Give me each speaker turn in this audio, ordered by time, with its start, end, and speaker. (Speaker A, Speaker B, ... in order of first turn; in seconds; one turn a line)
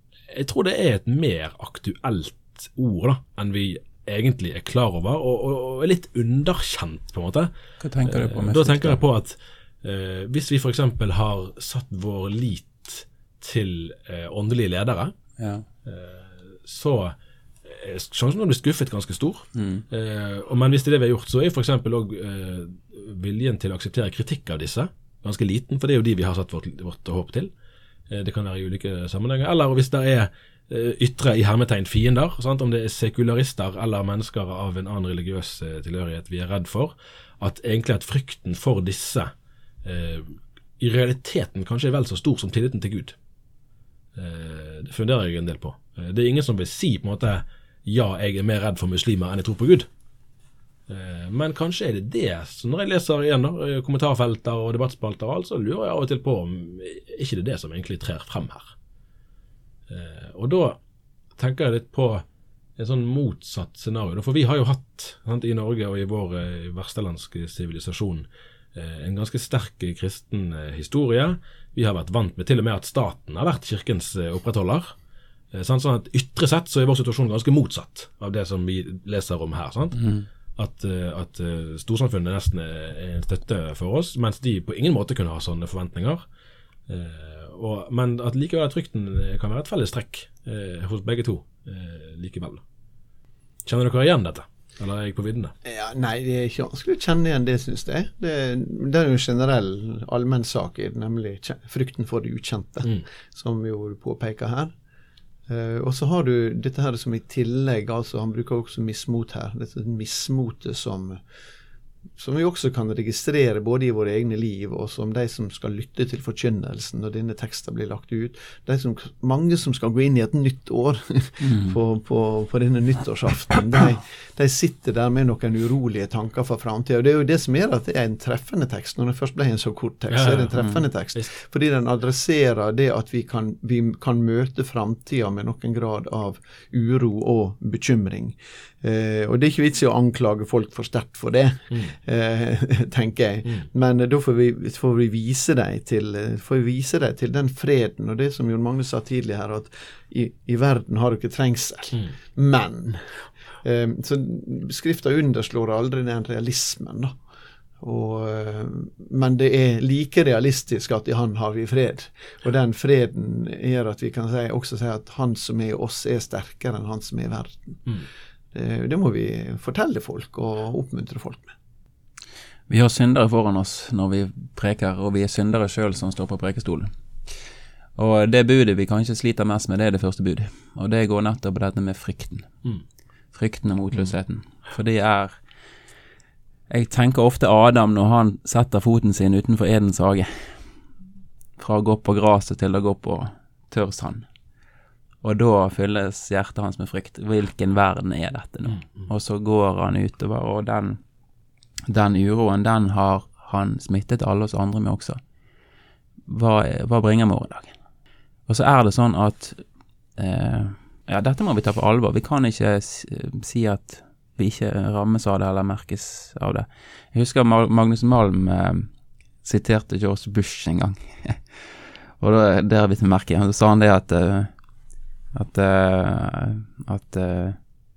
Speaker A: 0.3-7.5
Speaker B: 7.8-9.0
Speaker A: 8.0-15.1
Speaker B: 15.4-15.6
Speaker A: 15.8-27.5
Speaker B: 19.5-19.8
Speaker A: 28.1-39.3
Speaker A: 39.8-43.1
Speaker A: 44.1-49.9
Speaker A: 50.9-58.7
Speaker A: 59.9-60.8
Speaker A: 61.4-62.2
Speaker A: 62.8-74.9
Speaker A: 75.5-80.0
Speaker B: 79.9-80.3
Speaker A: 80.5-86.2
Speaker A: 86.9-92.6
Speaker A: 93.6-95.5
Speaker C: 95.6-104.7
Speaker C: 105.5-111.2
Speaker C: 112.2-157.2
Speaker B: 121.4-121.8
Speaker A: 130.1-131.3
Speaker C: 157.8-167.8
Speaker C: 168.5-171.5
Speaker B: 172.7-176.9
Speaker B: 178.0-182.5
Speaker B: 183.3-185.3
Speaker B: 186.7-190.6
Speaker B: 191.6-194.2
Speaker B: 195.2-201.0
Speaker B: 201.9-205.2
Speaker B: 206.3-207.7
Speaker B: 208.5-209.6
Speaker B: 210.2-218.9
Speaker B: 219.4-221.7
Speaker B: 222.2-224.5
Speaker B: 225.3-227.6